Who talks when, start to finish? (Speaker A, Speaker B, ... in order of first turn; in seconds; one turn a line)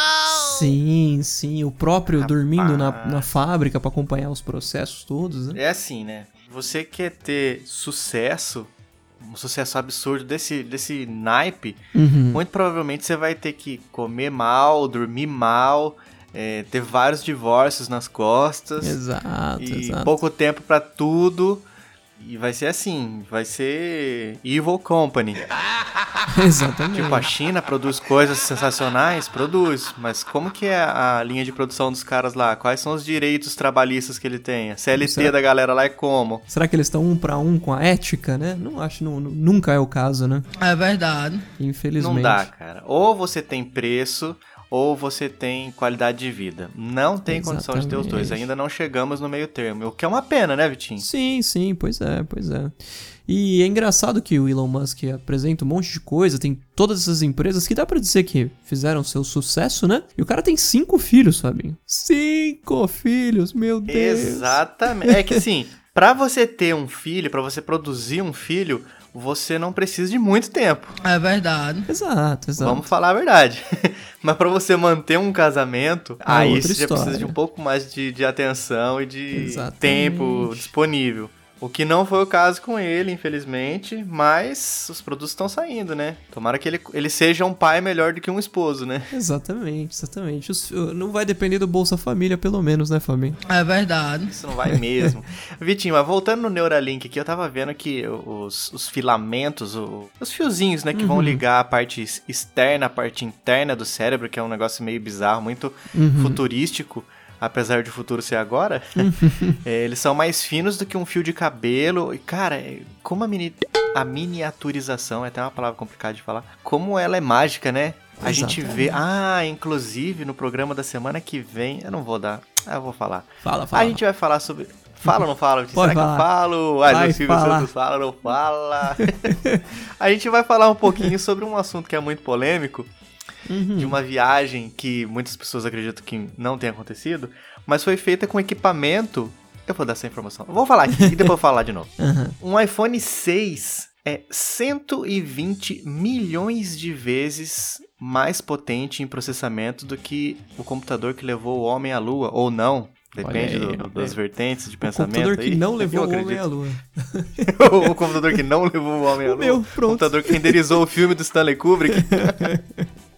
Speaker A: 0.3-5.6
Speaker B: 2.1-3.3
Speaker B: 5.5-11.8
Speaker A: 11.9-12.4
Speaker B: 12.3-19.0
Speaker A: 18.8-20.1
Speaker B: 19.6-25.4
Speaker A: 26.3-27.3
Speaker B: 26.9-36.4
Speaker A: 34.9-35.3
Speaker A: 36.5-40.5
Speaker C: 40.6-41.4
Speaker A: 41.6-42.5
Speaker B: 42.0-51.0
Speaker A: 47.2-48.4
Speaker A: 51.0-52.7
Speaker A: 53.2-64.6
Speaker B: 63.9-71.0
Speaker C: 71.0-71.9
Speaker A: 71.9-72.9
Speaker B: 72.6-89.0
Speaker A: 76.2-77.3
Speaker A: 79.3-80.7
Speaker A: 89.1-93.4
Speaker C: 93.5-94.3
Speaker B: 94.3-109.0
Speaker A: 94.6-95.1
Speaker A: 100.9-101.4
Speaker A: 105.9-106.4
Speaker A: 109.0-109.6
Speaker B: 109.6-129.3
Speaker A: 118.2-118.9
Speaker A: 123.4-124.0
Speaker A: 125.1-126.3
Speaker A: 126.8-127.7
Speaker A: 129.2-129.6
Speaker B: 130.0-132.9
Speaker A: 133.5-134.0
Speaker B: 133.8-156.5
Speaker A: 142.0-142.3
Speaker A: 153.2-154.2
Speaker A: 154.8-157.4
Speaker B: 157.4-162.5
Speaker A: 159.2-160.6
Speaker A: 161.9-162.8